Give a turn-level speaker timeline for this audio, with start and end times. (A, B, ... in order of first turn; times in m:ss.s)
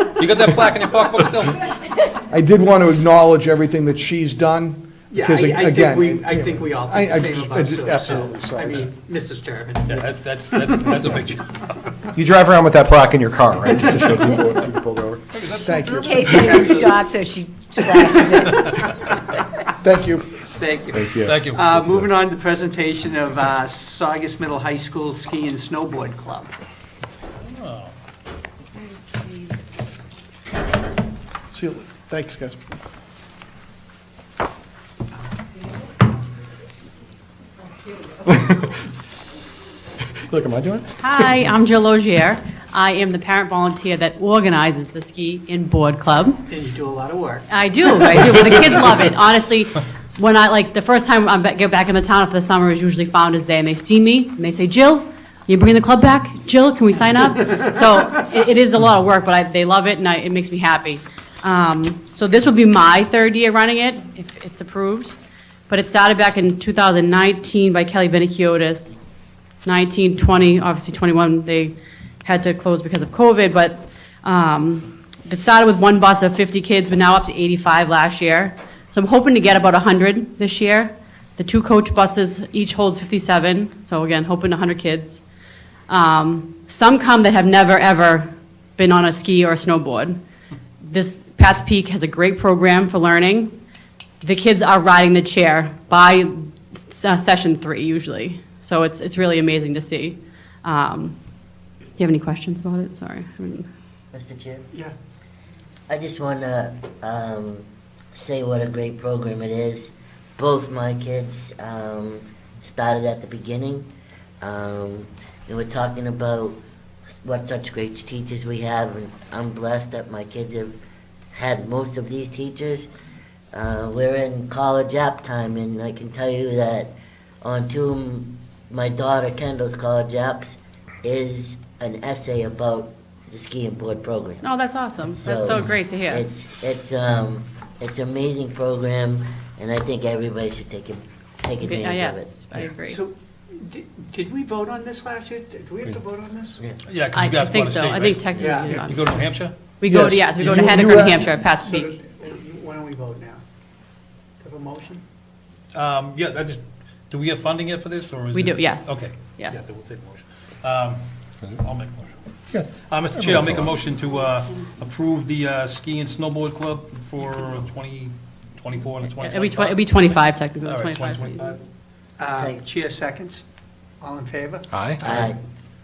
0:00.2-0:01.6 A
0:02.3-0:08.9 B
0:05.1-0:10.0 C
0:09.9-0:11.9 A
0:12.1-0:15.2 D
0:15.3-0:16.3 A
0:15.6-0:16.5 B
0:16.0-0:18.6 E
0:16.3-0:17.1 C
0:17.8-0:18.7 C
0:19.8-0:20.4 B
0:20.6-0:26.5 C
0:20.9-0:22.0 D
0:21.2-0:21.7 A
0:27.4-0:27.9 A
0:28.8-0:29.6 E
0:31.5-0:32.6 B
0:38.3-0:38.7 D
0:40.2-0:41.4 D
0:41.0-0:46.4 F
0:46.5-0:47.5 C
0:47.5-1:05.2 F
1:05.7-1:09.0 F
1:09.6-1:25.2 F
1:25.9-1:30.2 F
1:30.8-1:33.5 F
1:34.2-1:41.2 F
1:42.0-1:43.7 F
1:44.1-1:44.7 G
1:45.9-1:53.9 G
1:54.4-1:56.6 G
1:57.2-2:00.8 G
2:01.3-2:02.9 G
2:03.5-2:14.4 G
2:14.4-2:16.2 F
2:15.2-2:22.3 G
2:21.6-2:23.0 F
2:22.9-2:26.6 C
2:26.9-2:29.7 A
2:27.1-2:29.1 F
2:28.4-2:28.8 C
2:29.8-2:32.0 F
2:29.8-2:31.3 B
2:30.4-2:31.1 A
2:31.5-2:33.4 C
2:34.4-2:35.0 C
2:35.7-2:42.2 A
2:38.3-2:39.8 F
2:42.5-2:43.7 D
2:42.7-2:49.8 A
2:49.2-2:51.5 F
2:50.6-2:51.6 A
2:52.2-2:53.4 C
2:52.3-2:52.6 G
2:54.0-2:55.3 C
2:54.7-2:55.2 D
2:55.0-2:55.4 G